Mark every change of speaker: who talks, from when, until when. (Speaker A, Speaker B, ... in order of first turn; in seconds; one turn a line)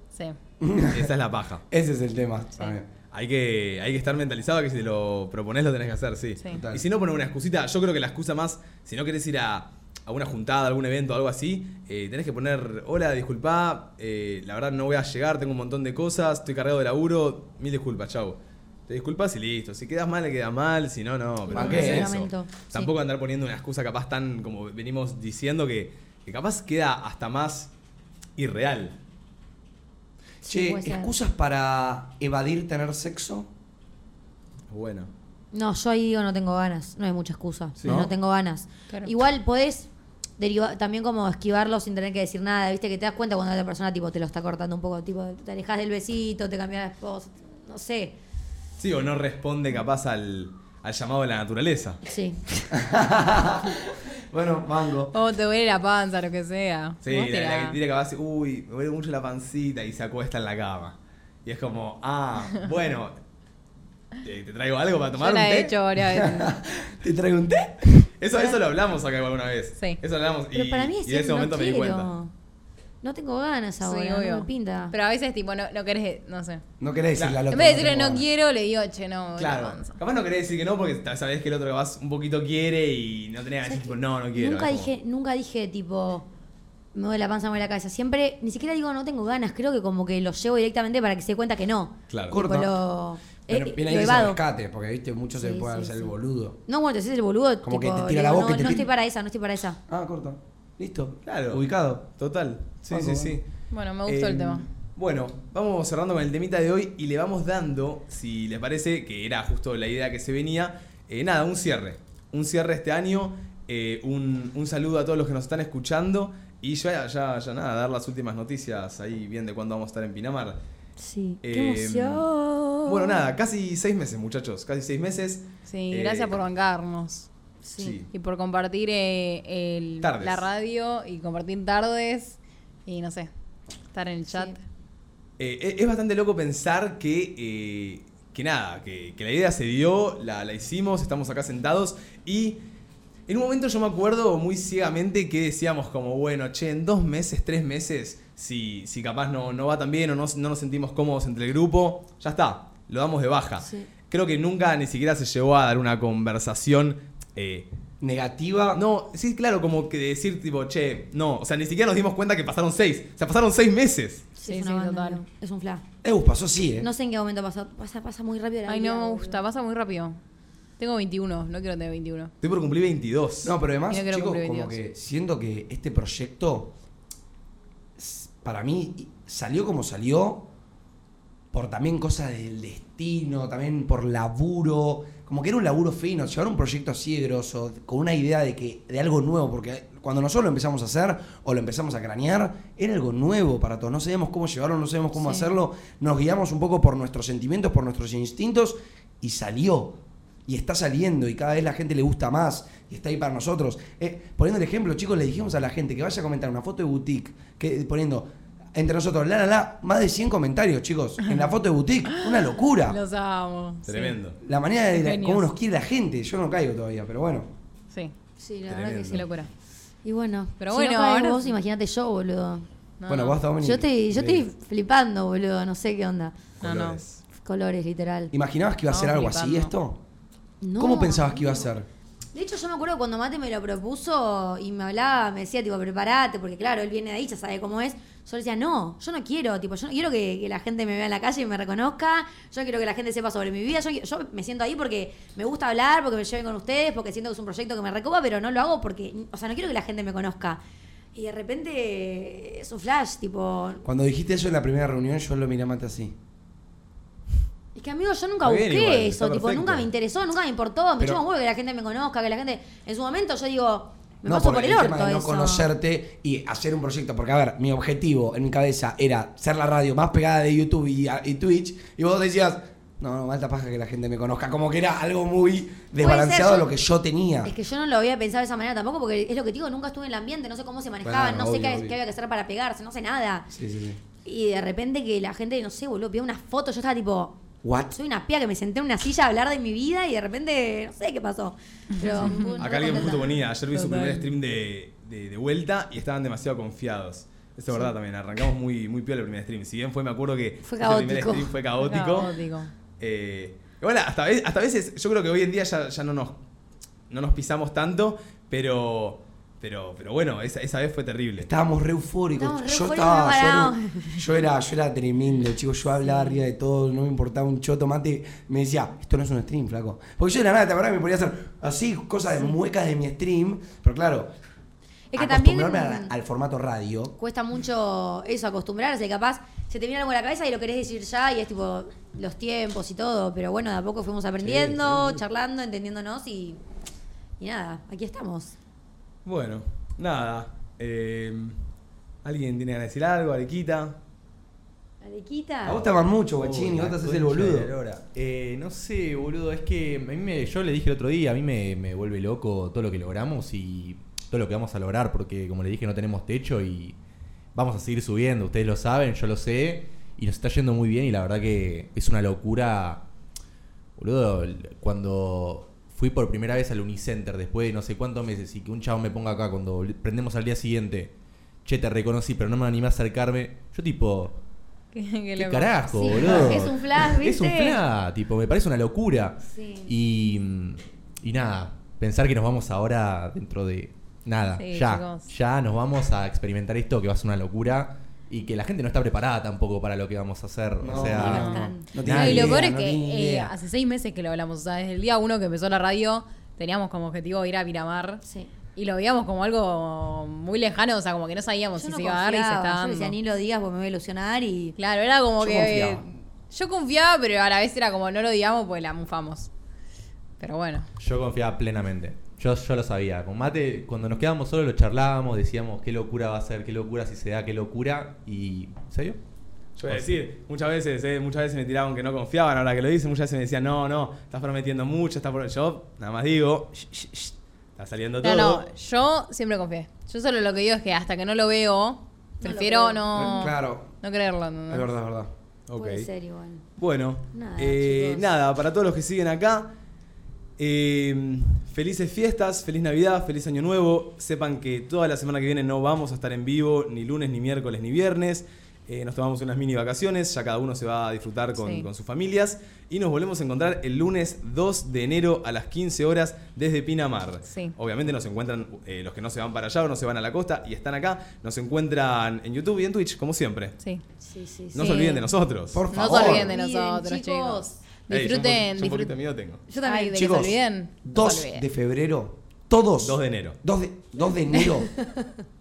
Speaker A: 0.6-1.1
Speaker B: 0.9-1.6
Speaker A: 1.7-2.9
Speaker B: 3.1-27.7
Speaker A: 6.5-6.8
Speaker C: 21.5-22.9
Speaker A: 21.5-22.1
Speaker B: 28.4-28.9
Speaker C: 30.4-31.1
Speaker A: 30.4-33.5
Speaker B: 34.7-35.1
Speaker C: 35.5-48.1
Speaker B: 37.8-38.1
Speaker A: 37.8-38.1
Speaker B: 48.8-52.0
Speaker C: 52.0-52.7
Speaker A: 52.7-55.1
Speaker D: 55.1-57.8
Speaker B: 57.0-63.1
Speaker B: 64.2-65.7
Speaker D: 65.2-66.5
Speaker A: 66.1-68.1
Speaker B: 68.2-72.1
Speaker C: 70.5-72.3
Speaker C: 73.0-74.9
Speaker D: 73.8-76.6
Speaker A: 76.8-78.2
Speaker D: 77.5-79.9
Speaker B: 79.4-84.9
Speaker C: 83.6-86.3
Speaker C: 86.9-94.4
Speaker B: 92.1-92.3
Speaker A: 92.3-92.8
Speaker A: 93.5-96.6
Speaker C: 95.4-96.1
Speaker C: 96.7-99.8
Speaker A: 97.6-98.9
Speaker A: 99.9-102.0
Speaker B: 101.2-103.4
Speaker A: 102.9-103.4
Speaker D: 103.7-104.7
Speaker B: 104.0-120.6
Speaker C: 121.0-123.2
Speaker B: 121.4-122.2
Speaker B: 122.8-126.4
Speaker D: 125.7-127.3
Speaker C: 127.6-128.0
Speaker B: 127.8-128.1
Speaker D: 128.1-133.3
Speaker B: 130.0-130.4
Speaker D: 133.9-134.6
Speaker C: 134.3-134.5
Speaker B: 135.4-142.6
Speaker B: 143.3-157.7
Speaker C: 153.6-153.9
Speaker A: 158.0-158.8
Speaker B: 158.7-164.2
Speaker C: 164.3-165.8
Speaker D: 164.4-165.2
Speaker A: 166.0-166.9
Speaker C: 166.8-169.4
Speaker D: 168.7-170.2
Speaker D: 170.8-172.3
Speaker B: 172.4-173.5
Speaker A: 173.4-176.7
Speaker D: 173.9-174.7
Speaker A: 178.0-180.5
Speaker A: 181.5-213.0
Speaker D: 211.2-211.5
Speaker D: 212.1-214.2
Speaker B: 213.9-214.3
Speaker A: 214.4-217.5
Speaker D: 214.9-215.5
Speaker C: 218.4-219.2
Speaker B: 218.7-219.2
Speaker D: 219.1-219.5
Speaker C: 220.0-222.7
Speaker D: 220.6-221.5
Speaker D: 223.0-223.4
Speaker A: 223.1-224.4
Speaker C: 223.6-226.4
Speaker D: 226.6-227.0
Speaker B: 226.6-227.2
Speaker C: 227.3-228.3
Speaker A: 228.3-230.0
Speaker D: 228.9-229.7
Speaker C: 230.6-231.7
Speaker A: 230.8-231.9
Speaker C: 232.3-250.6
Speaker C: 251.1-253.8
Speaker A: 253.8-256.1
Speaker C: 257.7-265.7
Speaker B: 258.4-259.9
Speaker A: 264.2-277.5
Speaker C: 276.0-276.7
Speaker C: 277.4-283.5
Speaker A: 281.0-282.0
Speaker A: 283.5-284.0
Speaker C: 284.2-287.4
Speaker A: 287.6-287.9
Speaker C: 287.9-293.3
Speaker D: 291.9-293.1
Speaker B: 292.6-302.3
Speaker D: 293.7-294.3
Speaker C: 300.6-301.5
Speaker D: 301.8-302.7
Speaker B: 303.0-306.4
Speaker B: 307.1-311.5
Speaker A: 311.4-324.3
Speaker C: 312.4-314.3
Speaker C: 316.0-316.4
Speaker C: 325.1-326.1
Speaker A: 325.1-327.1
Speaker C: 327.2-336.6
Speaker A: 334.4-335.1
Speaker C: 337.4-338.5
Speaker B: 339.2-341.6
Speaker B: 342.2-344.0
Speaker C: 345.0-345.8
Speaker A: 345.6-347.7
Speaker E: 346.4-357.0
Speaker E: 357.5-363.0
Speaker E: 363.9-371.1
Speaker E: 371.6-374.4
Speaker D: 374.9-376.2
Speaker E: 375.4-392.6
Speaker C: 375.9-377.8
Speaker C: 379.4-379.9
Speaker D: 384.6-385.3
Speaker A: 390.8-393.5
Speaker C: 390.9-391.9
Speaker D: 391.2-398.2
Speaker C: 398.2-398.5
Speaker D: 398.8-403.1
Speaker C: 401.8-404.8
Speaker D: 404.8-409.5
Speaker A: 405.4-406.0
Speaker D: 410.4-410.9
Speaker E: 411.0-419.2
Speaker B: 419.8-428.6
Speaker E: 419.8-420.2
Speaker D: 428.2-434.9
Speaker C: 432.4-433.3
Speaker A: 433.1-433.9
Speaker A: 434.7-435.3
Speaker B: 435.7-436.1
Speaker C: 435.8-436.6
Speaker B: 436.8-439.7
Speaker C: 437.3-438.3
Speaker B: 440.6-463.8
Speaker D: 451.6-451.9
Speaker D: 457.4-457.7
Speaker C: 464.2-465.2
Speaker B: 464.7-465.8
Speaker D: 464.8-465.2
Speaker A: 465.7-466.5
Speaker D: 465.9-469.1
Speaker C: 466.2-467.7
Speaker B: 468.1-469.6
Speaker C: 469.7-470.4
Speaker D: 469.8-471.6
Speaker A: 470.1-474.9
Speaker B: 473.0-473.6